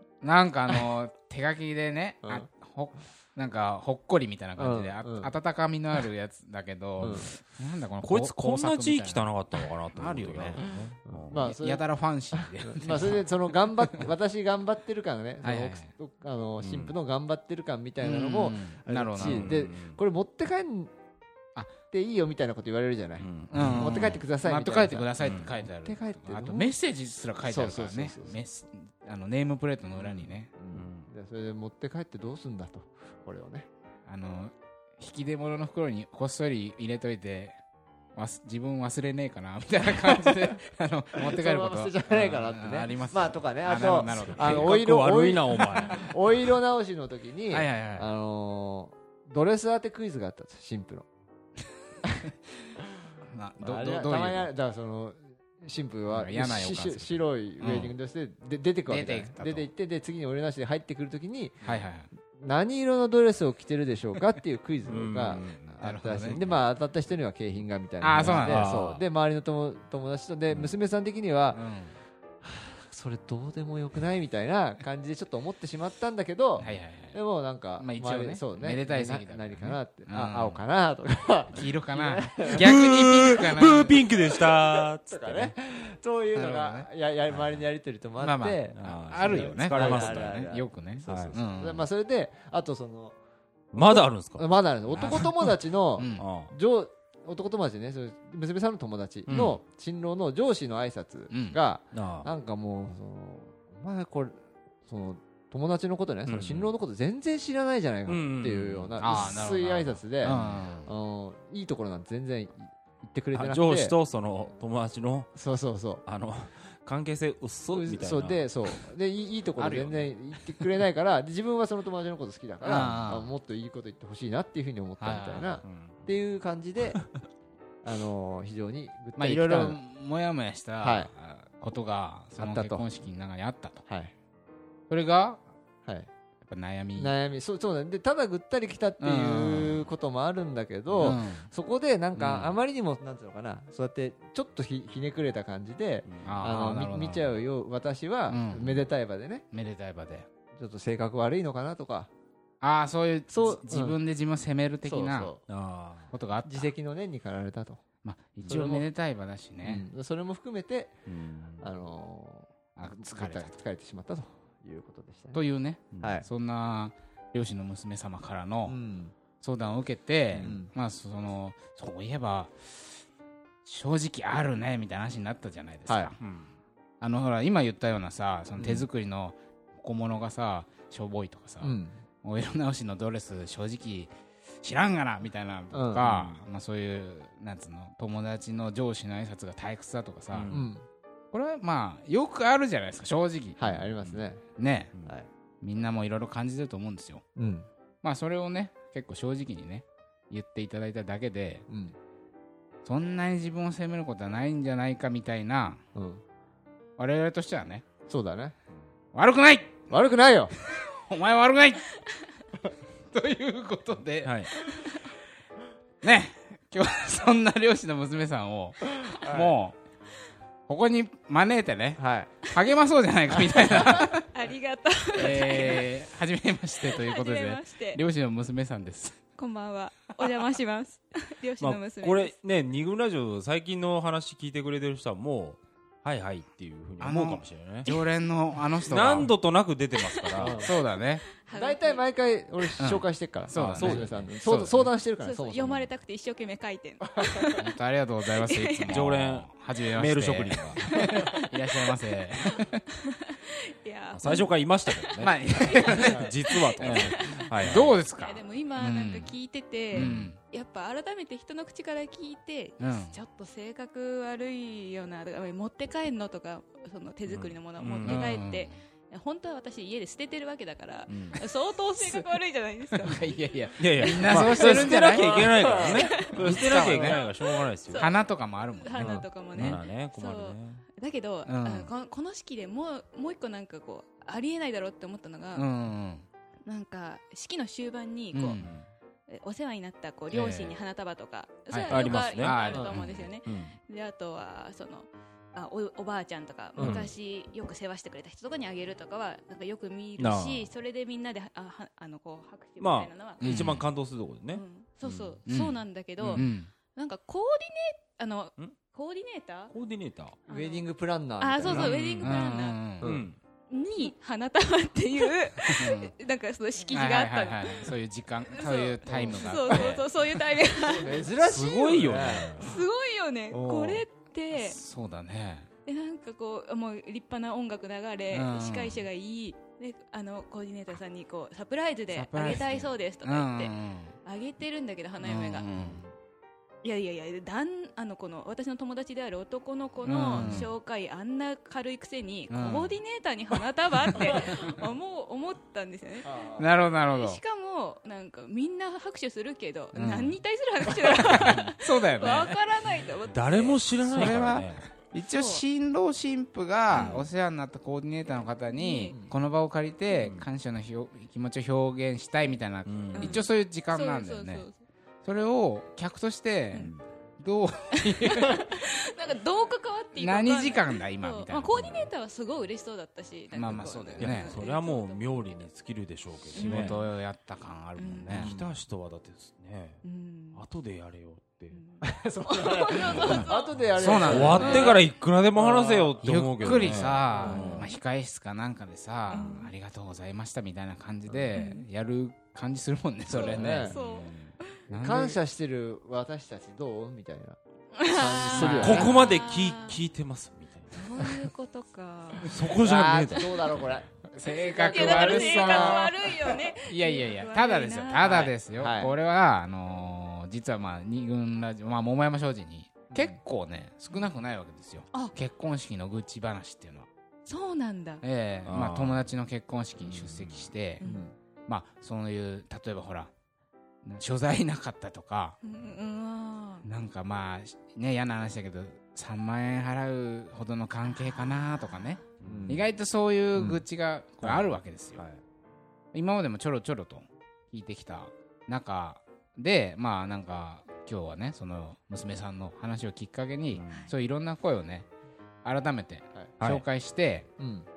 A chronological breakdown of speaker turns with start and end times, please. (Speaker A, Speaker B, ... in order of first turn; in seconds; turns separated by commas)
Speaker A: 0.2-9.3, Speaker B: 2.2-2.5, Speaker B: 4.6-5.3, Speaker B: 7.0-7.3, Speaker C: 8.0-11.4, Speaker A: 9.9-10.6, Speaker B: 11.1-20.9, Speaker A: 11.3-14.1, Speaker A: 15.4-15.9, Speaker C: 16.6-16.9, Speaker A: 18.0-19.6, Speaker C: 19.2-20.0, Speaker B: 21.9-26.7, Speaker C: 23.2-24.1, Speaker A: 23.5-30.5, Speaker C: 25.2-25.5, Speaker B: 27.4-28.4, Speaker C: 30.0-31.1, Speaker B: 30.6-33.7, Speaker A: 34.1-37.6, Speaker A: 38.1-44.7, Speaker B: 41.2-51.0, Speaker C: 44.1-46.1, Speaker A: 47.5-48.1, Speaker A: 53.3-54.5, Speaker B: 53.6-61.6, Speaker A: 56.1-57.9, Speaker A: 58.9-59.7, Speaker A: 61.6-62.1, Speaker B: 62.4-71.6, Speaker C: 64.9-65.8, Speaker A: 65.8-66.5, Speaker A: 68.0-68.9, Speaker C: 68.2-69.0, Speaker A: 71.5-72.0, Speaker B: 72.4-93.2, Speaker A: 76.6-77.2, Speaker A: 77.8-80.7, Speaker A: 81.5-84.0, Speaker C: 82.6-85.5, Speaker A: 86.3-86.9, Speaker A: 88.2-91.8, Speaker C: 88.8-90.4, Speaker C: 91.1-91.3, Speaker C: 93.7-95.3, Speaker B: 93.8-114.0, Speaker A: 94.9-96.2, Speaker C: 96.2-96.5, Speaker C: 99.3-99.6, Speaker A: 101.3-101.6, Speaker C: 101.9-102.3, Speaker C: 106.2-106.7, Speaker C: 108.0-109.2, Speaker A: 109.0-110.9, Speaker C: 110.2-110.6, Speaker C: 113.3-115.5, Speaker B: 115.3-116.0, Speaker C: 116.0-118.8, Speaker B: 117.7-127.0, Speaker A: 119.6-120.1, Speaker A: 122.6-123.3, Speaker A: 125.0-125.6, Speaker C: 125.6-126.0, Speaker B: 127.8-129.8, Speaker A: 129.2-133.8, Speaker B: 130.8-131.1, Speaker B: 132.4-132.9, Speaker B: 133.8-134.1, Speaker A: 134.9-135.4, Speaker A: 136.4-137.1, Speaker B: 136.9-149.4, Speaker A: 139.0-139.8, Speaker A: 141.0-141.4, Speaker A: 142.2-142.6, Speaker C: 146.1-146.3, Speaker A: 146.2-147.3, Speaker A: 148.3-148.8, Speaker A: 149.5-150.2, Speaker B: 150.6-152.1, Speaker A: 152.6-155.3, Speaker B: 153.3-154.0, Speaker B: 154.8-155.4, Speaker C: 155.5-156.1, Speaker A: 156.1-156.7, Speaker B: 156.4-157.8, Speaker A: 158.0-159.8, Speaker B: 158.4-158.9, Speaker B: 159.6-161.0, Speaker C: 161.1-161.7, Speaker B: 161.6-165.4, Speaker A: 162.8-163.5, Speaker A: 165.3-168.8, Speaker C: 165.9-166.2, Speaker B: 166.0-166.2, Speaker B: 168.7-169.1, Speaker A: 169.4-173.0, Speaker B: 170.4-170.7, Speaker A: 173.6-176.2, Speaker B: 175.9-176.1, Speaker C: 176.2-176.5, Speaker A: 177.0-190.6, Speaker B: 178.6-178.9, Speaker B: 181.6-182.0, Speaker B: 185.7-186.1, Speaker C: 186.0-186.4, Speaker C: 190.3-190.7, Speaker B: 190.5-190.8, Speaker A: 191.3-193.9, Speaker B: 193.6-194.4, Speaker C: 194.0-194.2, Speaker A: 194.6-194.9, Speaker A: 195.6-197.2, Speaker B: 197.3-197.7, Speaker A: 198.0-201.6, Speaker B: 201.7-201.9, Speaker A: 202.8-205.8, Speaker B: 205.9-206.2, Speaker A: 207.0-207.8, Speaker B: 208.1-208.5, Speaker A: 209.1-209.9, Speaker B: 209.9-210.5, Speaker A: 210.9-211.9, Speaker A: 213.1-214.8, Speaker C: 214.2-214.5, Speaker A: 216.0-219.8, Speaker B: 219.1-219.5, Speaker A: 220.7-224.2, Speaker B: 222.0-222.3, Speaker D: 224.3-225.9, Speaker A: 225.1-229.2, Speaker D: 226.8-228.0, Speaker D: 229.3-232.3, Speaker C: 231.6-237.9, Speaker A: 237.0-239.3, Speaker C: 238.8-240.6, Speaker D: 240.0-240.5, Speaker B: 240.4-240.7, Speaker A: 240.6-241.2, Speaker D: 241.4-242.0, Speaker B: 241.5-245.9, Speaker A: 242.8-244.9, Speaker C: 243.5-244.3, Speaker D: 245.2-247.6, Speaker A: 247.6-252.8, Speaker D: 248.4-249.0, Speaker C: 248.9-250.8, Speaker D: 250.8-251.3, Speaker D: 252.6-253.1, Speaker D: 253.8-273.4, Speaker C: 254.1-258.0, Speaker A: 255.2-256.2, Speaker A: 256.8-259.4, Speaker A: 259.9-260.4, Speaker C: 259.9-260.3, Speaker A: 262.8-263.2, Speaker C: 267.3-268.2, Speaker A: 268.0-268.7, Speaker C: 271.1-271.4, Speaker A: 272.0-272.2, Speaker A: 273.0-275.3, Speaker C: 273.8-278.1, Speaker D: 274.0-285.7, Speaker B: 274.4-276.1, Speaker A: 276.1-277.2, Speaker B: 276.8-277.1, Speaker A: 277.9-279.8, Speaker C: 278.9-280.8, Speaker A: 281.5-281.9, Speaker A: 285.5-286.2, Speaker D: 286.6-288.6, Speaker A: 288.3-288.6, Speaker C: 288.6-288.9, Speaker D: 289.3-303.7, Speaker A: 290.3-290.8, Speaker A: 291.7-292.9, Speaker C: 291.8-293.7, Speaker B: 292.7-292.9, Speaker B: 296.8-297.0, Speaker C: 296.8-297.0, Speaker C: 300.2-300.7, Speaker C: 302.8-305.4, Speaker A: 303.4-303.8, Speaker D: 304.5-309.7, Speaker A: 305.4-305.8, Speaker C: 306.2-306.5, Speaker A: 306.3-306.7, Speaker C: 309.7-310.4, Speaker D: 310.5-310.9, Speaker B: 310.5-312.1, Speaker D: 311.4-312.8, Speaker C: 311.7-312.4, Speaker A: 311.7-313.1, Speaker B: 313.0-313.3, Speaker C: 313.0-313.4, Speaker D: 313.7-317.9, Speaker A: 315.7-316.1, Speaker A: 316.9-320.1, Speaker D: 318.5-321.3, Speaker B: 319.1-319.9, Speaker B: 320.8-322.8, Speaker C: 321.4-322.7, Speaker D: 322.6-324.8, Speaker B: 323.5-324.0, Speaker A: 324.5-325.7, Speaker D: 325.9-335.7, Speaker A: 328.3-329.0, Speaker A: 332.1-334.1, Speaker A: 335.2-336.1, Speaker D: 336.8-346.3, Speaker A: 340.0-340.7, Speaker A: 342.5-342.9, Speaker A: 344.1-344.4, Speaker B: 346.2-346.7, Speaker A: 346.6-347.4, Speaker D: 347.1-354.6, Speaker A: 349.9-350.4, Speaker A: 351.1-352.5, Speaker B: 351.4-351.7, Speaker C: 353.3-354.8, Speaker A: 354.1-364.6, Speaker D: 355.3-355.6, Speaker D: 356.9-357.2, Speaker C: 356.9-357.2, Speaker D: 358.7-359.1, Speaker C: 360.2-360.5, Speaker C: 362.9-363.5, Speaker D: 363.1-364.8, Speaker A: 365.2-368.6, Speaker C: 366.8-367.0, Speaker D: 368.0-375.7, Speaker A: 370.2-372.1, Speaker A: 373.5-374.6, Speaker C: 373.6-377.0, Speaker D: 376.5-377.1, Speaker A: 376.6-378.5, Speaker D: 378.0-378.4, Speaker C: 378.3-380.0, Speaker B: 378.3-378.7, Speaker D: 380.0-380.6, Speaker C: 380.5-381.8, Speaker D: 381.7-385.0, Speaker B: 382.0-386.2, Speaker A: 383.3-384.9, Speaker C: 384.2-387.9, Speaker A: 386.2-393.9, Speaker D: 387.1-388.0, Speaker D: 389.3-389.7, Speaker C: 389.3-389.6, Speaker B: 391.3-391.6, Speaker D: 391.5-391.8, Speaker B: 393.3-393.9, Speaker D: 393.3-394.6, Speaker C: 393.9-394.5, Speaker A: 394.9-395.4, Speaker B: 394.9-399.1, Speaker D: 398.0-400.0, Speaker A: 398.5-399.1, Speaker C: 398.7-400.9, Speaker D: 400.9-402.6, Speaker C: 402.4-403.7, Speaker B: 402.8-406.6, Speaker A: 404.3-406.1, Speaker D: 404.7-408.5, Speaker A: 406.8-417.1, Speaker B: 408.2-409.2, Speaker B: 413.1-413.4, Speaker D: 417.4-418.2, Speaker A: 418.2-421.0, Speaker C: 418.6-419.3, Speaker C: 420.0-420.7, Speaker D: 421.0-421.2, Speaker B: 421.0-421.3, Speaker A: 421.7-423.3, Speaker A: 424.0-425.6, Speaker D: 425.6-426.9, Speaker A: 426.8-435.2, Speaker D: 431.1-432.2, Speaker C: 432.4-432.8, Speaker B: 432.4-432.8, Speaker C: 433.5-433.8, Speaker C: 434.4-435.4, Speaker A: 436.1-445.1, Speaker C: 443.7-444.1, Speaker A: 445.6-447.5, Speaker C: 446.6-446.8, Speaker B: 447.6-447.9